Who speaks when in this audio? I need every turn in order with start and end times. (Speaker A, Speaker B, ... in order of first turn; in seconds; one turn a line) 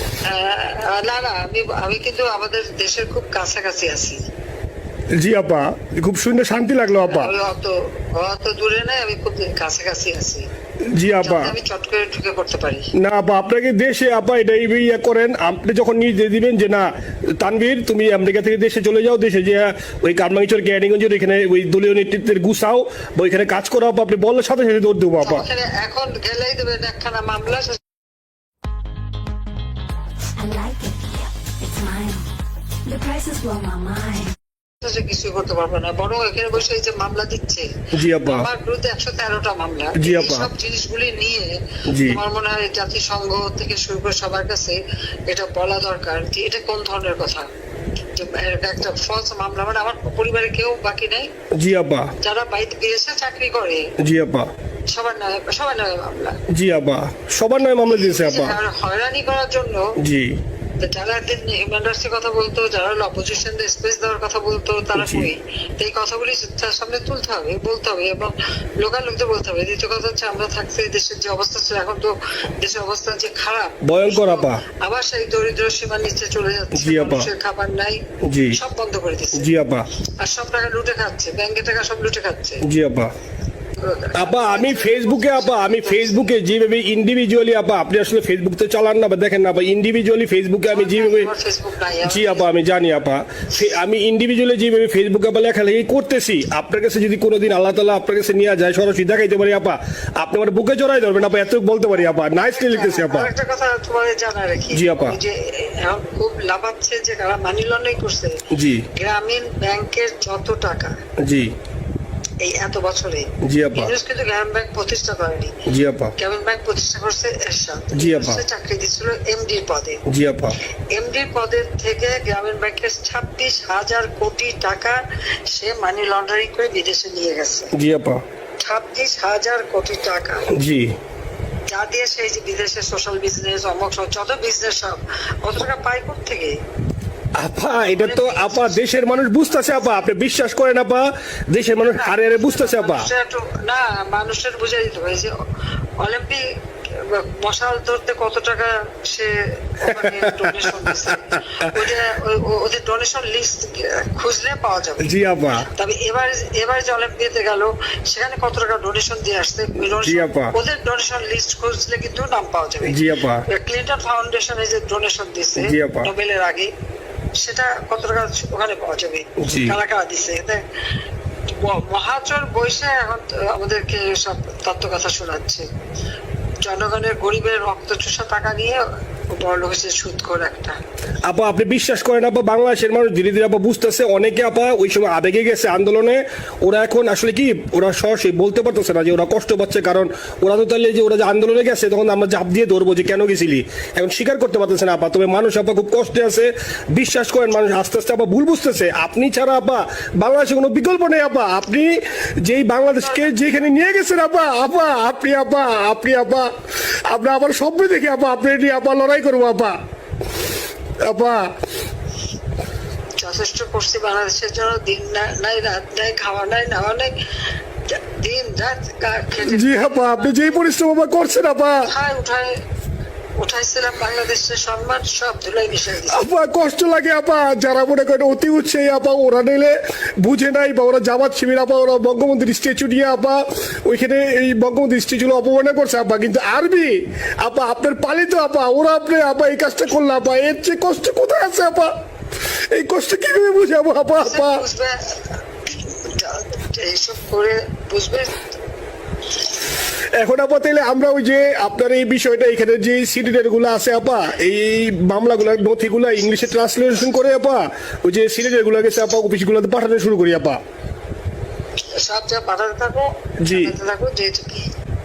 Speaker A: 0.2-4.2
Speaker B: 5.2-7.3
Speaker A: 7.0-10.4
Speaker B: 10.9-11.6
Speaker A: 11.2-12.9
Speaker B: 13.0-25.5
Speaker A: 25.2-27.8
Speaker C: 30.4-32.3
Speaker C: 32.9-34.3
Speaker A: 34.8-37.7
Speaker B: 37.9-38.5
Speaker A: 38.2-47.5
Speaker B: 40.0-40.5
Speaker B: 41.9-42.2
Speaker A: 48.1-51.3
Speaker B: 51.5-52.1
Speaker A: 52.2-53.8
Speaker B: 54.0-54.5
Speaker A: 54.9-56.4
Speaker B: 56.5-58.6
Speaker A: 57.9-60.0
Speaker B: 60.0-60.4
Speaker A: 60.8-78.0
Speaker B: 65.0-65.3
Speaker B: 73.8-74.6
Speaker B: 76.7-77.3
Speaker B: 78.2-78.6
Speaker A: 78.5-79.5
Speaker B: 79.3-79.9
Speaker A: 80.2-82.6
Speaker B: 82.6-83.1
Speaker A: 83.8-86.3
Speaker B: 84.2-91.3
Speaker A: 90.7-92.5
Speaker B: 92.1-103.3
Speaker A: 102.5-111.0
Speaker B: 104.7-105.2
Speaker B: 108.5-108.9
Speaker B: 111.2-111.6
Speaker A: 112.4-115.6
Speaker B: 113.4-113.9
Speaker B: 115.7-116.2
Speaker A: 116.2-120.0
Speaker B: 117.9-118.4
Speaker B: 120.1-120.6
Speaker A: 120.9-127.7
Speaker B: 127.7-128.2
Speaker A: 128.6-130.5
Speaker B: 130.5-130.9
Speaker A: 131.7-136.6
Speaker B: 137.4-143.1
Speaker A: 137.8-140.0
Speaker A: 141.8-145.3
Speaker A: 146.0-155.1
Speaker B: 149.8-152.0
Speaker B: 155.0-155.7
Speaker A: 155.7-166.7
Speaker B: 160.0-160.5
Speaker B: 162.9-163.5
Speaker B: 165.6-166.1
Speaker A: 167.4-170.6
Speaker B: 169.4-169.8
Speaker A: 171.5-175.7
Speaker A: 176.6-180.8
Speaker B: 181.2-206.5
Speaker A: 203.0-203.5
Speaker B: 207.1-209.8
Speaker B: 211.1-211.5
Speaker A: 213.2-217.2
Speaker A: 217.9-220.3
Speaker B: 219.4-221.9
Speaker A: 221.8-222.6
Speaker A: 223.4-226.3
Speaker B: 226.1-241.9
Speaker B: 242.5-244.7
Speaker A: 244.2-248.4
Speaker B: 250.2-260.6
Speaker A: 262.0-264.7
Speaker B: 263.4-263.7